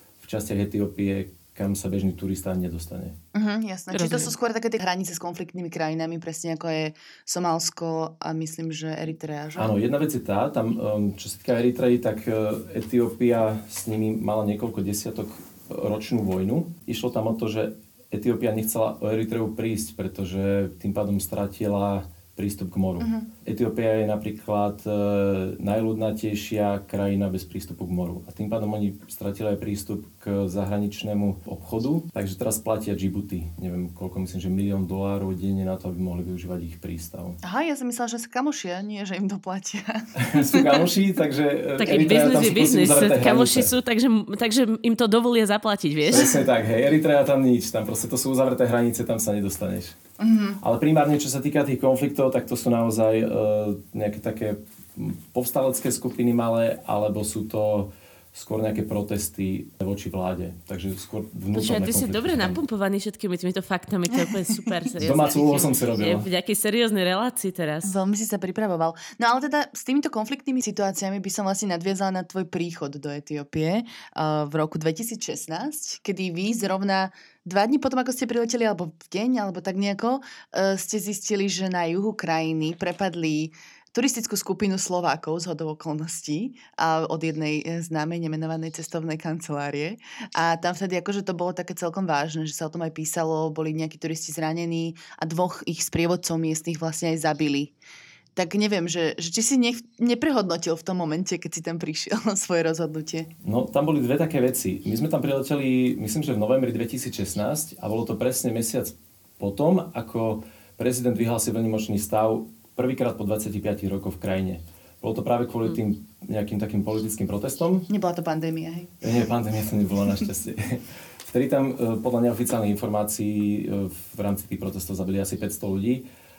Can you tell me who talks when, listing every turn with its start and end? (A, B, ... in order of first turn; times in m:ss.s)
0:00.2-0:03.1 A
0:03.3-0:09.7 B
0:03.9-0:04.3 C
0:09.6-0:37.4 A
0:23.0-0:23.3 B
0:37.4-0:40.9 B
0:40.2-0:43.7 A
0:41.8-0:46.3 C
0:46.1-0:50.0 A
0:50.2-0:50.6 B
0:50.6-1:02.6 A
1:01.5-1:07.9 C
1:05.0-1:06.3 A
1:07.8-1:37.7 B
1:38.4-1:43.3 B
1:43.4-1:57.9 A
1:57.9-1:58.9 B
1:59.0-2:06.0 A